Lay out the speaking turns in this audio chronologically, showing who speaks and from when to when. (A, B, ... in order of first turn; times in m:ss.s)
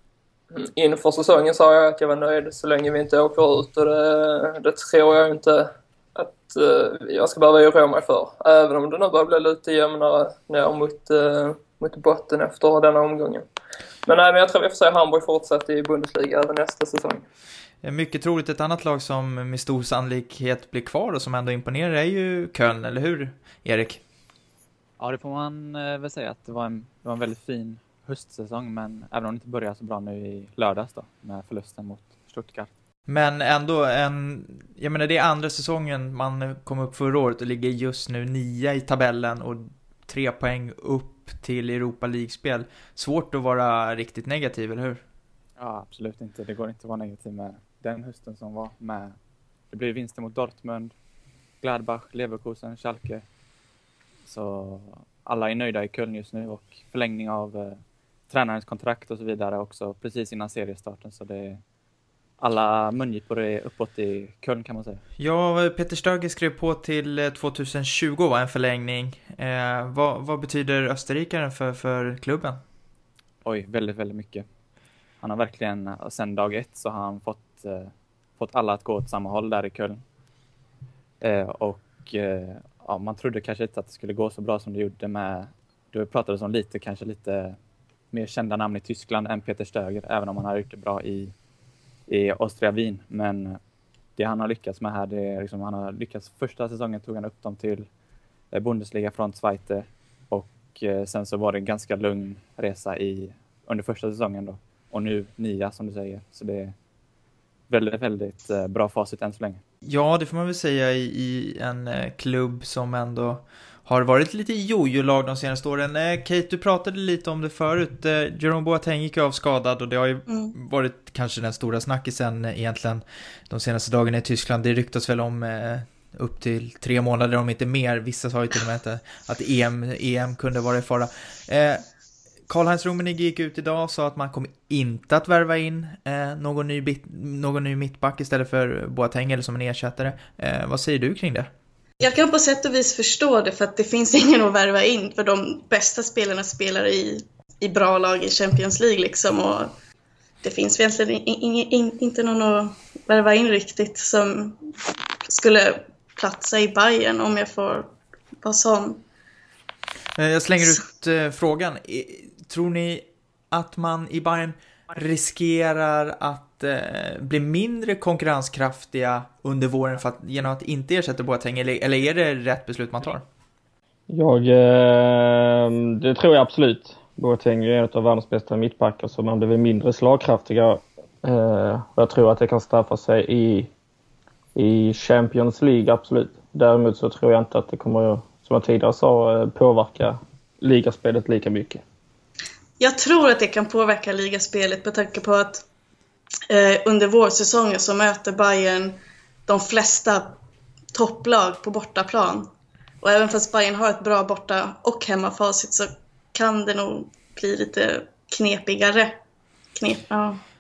0:00.5-0:13.5 A
0:14.0-0:17.2 A
0:17.8-0:24.0 B
0:25.0-0:32.7 C
0:33.1-0:45.0 B
0:45.6-0:49.1 C
0:49.7-0:50.9 C
0:51.6-0:53.2 C
0:54.2-1:01.6 C
1:02.4-1:05.0 C
1:05.2-1:12.6 B
1:13.4-1:14.4 C
1:15.2-1:20.0 C
1:21.2-1:27.6 C
1:28.1-1:31.3 C
1:32.1-1:33.6 C
1:34.2-1:37.9 C
1:38.5-1:46.7 C
1:47.7-1:49.6 C
1:49.8-2:11.8 B
2:00.3-2:00.5 D
2:12.5-2:21.5 B
2:22.0-2:29.7 D
2:30.4-2:34.6 D
2:35.2-2:37.9 D
2:38.4-2:39.0 D
2:40.2-2:53.2 B
2:54.1-3:03.7 E
3:04.5-3:11.8 E
3:12.8-3:15.6 D
3:16.5-3:20.4 D
3:20.9-3:22.5 D
3:23.0-3:29.1 D
3:29.8-3:30.4 D